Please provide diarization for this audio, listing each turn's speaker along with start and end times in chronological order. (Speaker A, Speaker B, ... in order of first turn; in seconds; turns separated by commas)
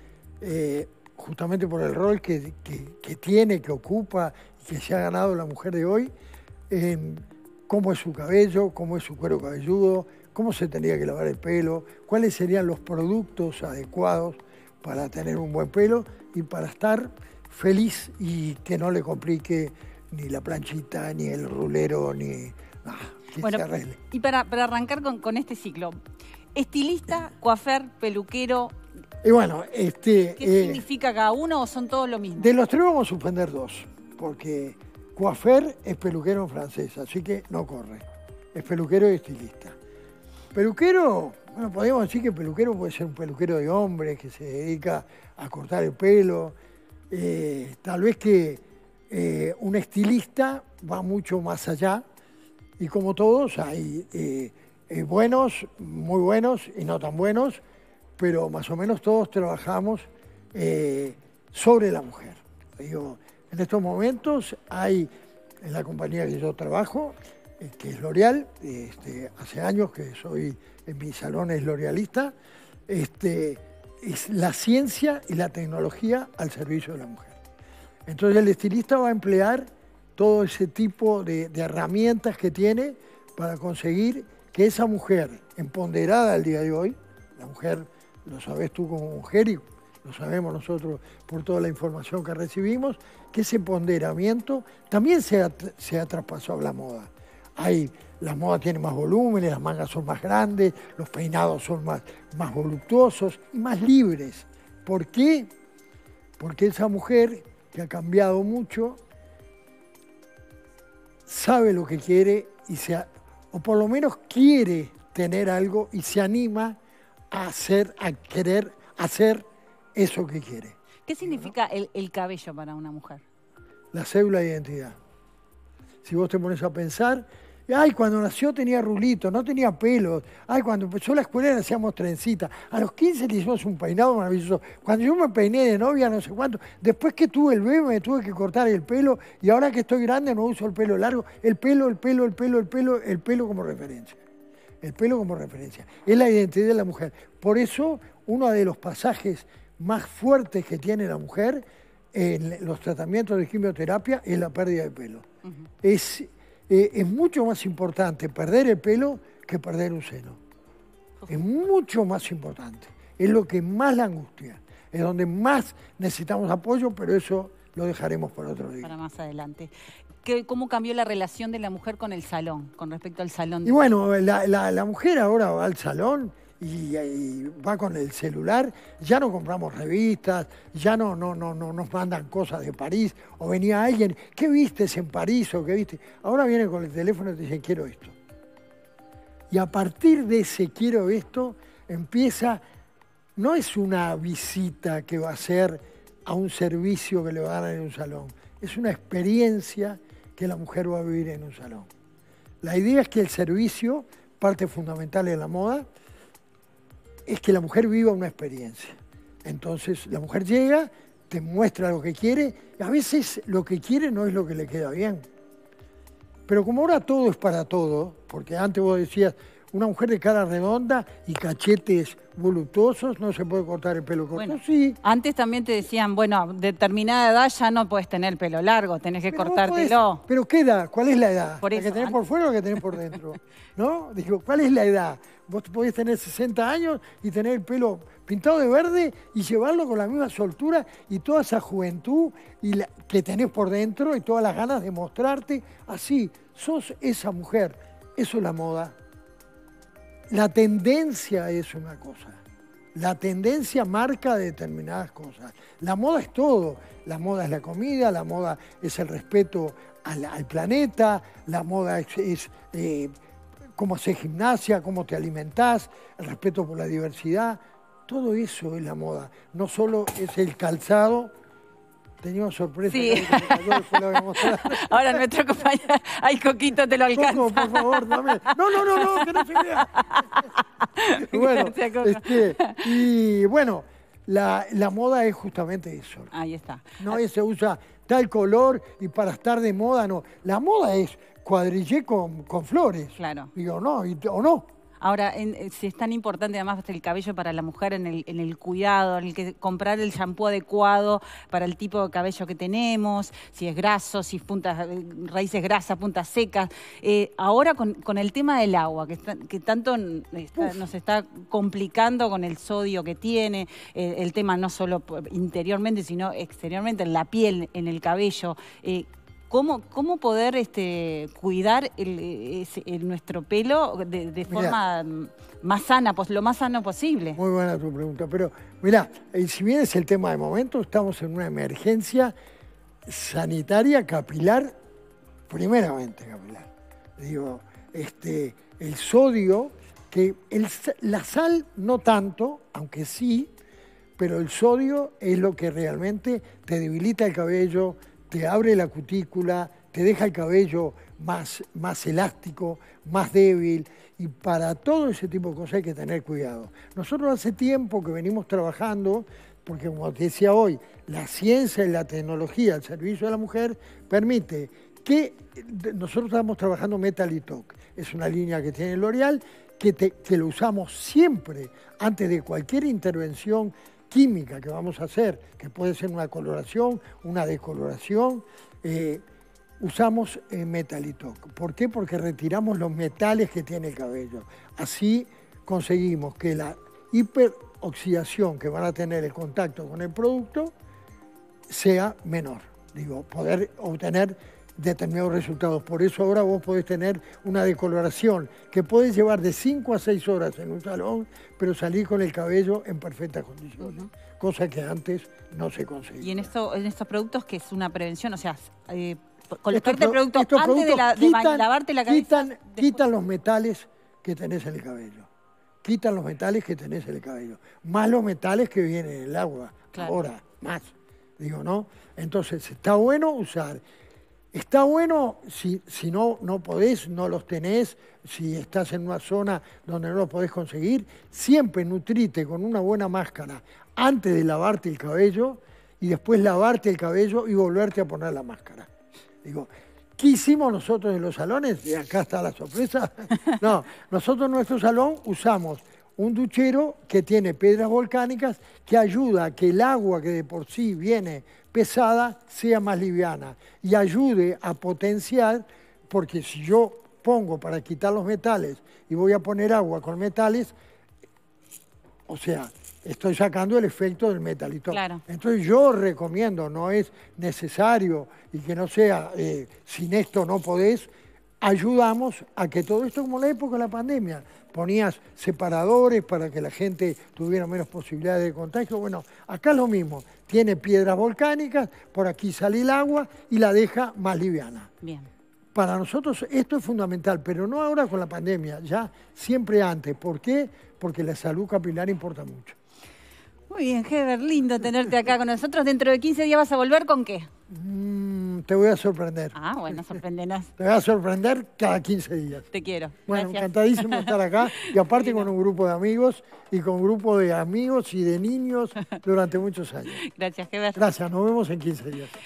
Speaker A: 0.4-6.1, Speaker A: 6.7-24.0, Speaker B: 23.4-26.0, Speaker B: 26.6-28.8, Speaker A: 29.2-30.8, Speaker B: 30.4-32.5, Speaker A: 32.4-39.8, Speaker A: 40.5-46.6, Speaker A: 47.1-52.0, Speaker A: 52.8-57.6, Speaker A: 58.2-65.1, Speaker A: 65.6-72.3, Speaker A: 72.9-77.4, Speaker A: 78.1-105.5, Speaker A: 106.4-109.0, Speaker A: 111.3-116.8, Speaker A: 117.3-119.4, Speaker A: 120.0-121.5, Speaker B: 121.1-123.2, Speaker A: 123.9-125.0, Speaker A: 126.0-144.2, Speaker A: 144.8-155.3, Speaker A: 155.8-160.4, Speaker A: 161.3-168.9, Speaker B: 168.8-169.7, Speaker B: 170.2-173.8, Speaker A: 173.6-188.2, Speaker A: 189.5-192.6, Speaker A: 193.4-201.9, Speaker A: 202.6-205.9, Speaker A: 207.3-215.2, Speaker A: 216.5-225.0, Speaker B: 224.3-230.2, Speaker A: 229.3-249.0, Speaker B: 231.6-232.2, Speaker A: 250.3-252.4, Speaker A: 252.9-263.1, Speaker A: 263.8-271.3, Speaker A: 272.2-275.2, Speaker B: 272.9-282.9, Speaker A: 277.1-280.4, Speaker A: 281.2-286.3, Speaker B: 286.3-287.2, Speaker A: 287.0-294.7, Speaker B: 293.2-293.5, Speaker B: 295.0-327.4, Speaker A: 324.5-324.8, Speaker A: 327.4-332.3, Speaker A: 333.1-334.7, Speaker A: 335.5-343.5, Speaker A: 344.2-379.2, Speaker A: 379.8-390.7, Speaker A: 391.7-406.5, Speaker B: 403.8-404.1, Speaker B: 406.2-413.0, Speaker A: 409.7-415.3, Speaker A: 415.8-423.8, Speaker B: 419.9-420.2, Speaker A: 424.5-438.9, Speaker A: 439.4-460.7, Speaker A: 462.3-484.9, Speaker B: 464.9-465.2, Speaker B: 485.0-485.3, Speaker A: 485.7-492.8, Speaker B: 493.7-497.5, Speaker A: 497.7-500.1, Speaker B: 499.5-500.7, Speaker A: 500.8-502.7, Speaker B: 502.7-504.4, Speaker A: 503.3-510.2, Speaker B: 504.9-505.5, Speaker B: 510.1-511.1, Speaker A: 511.0-512.3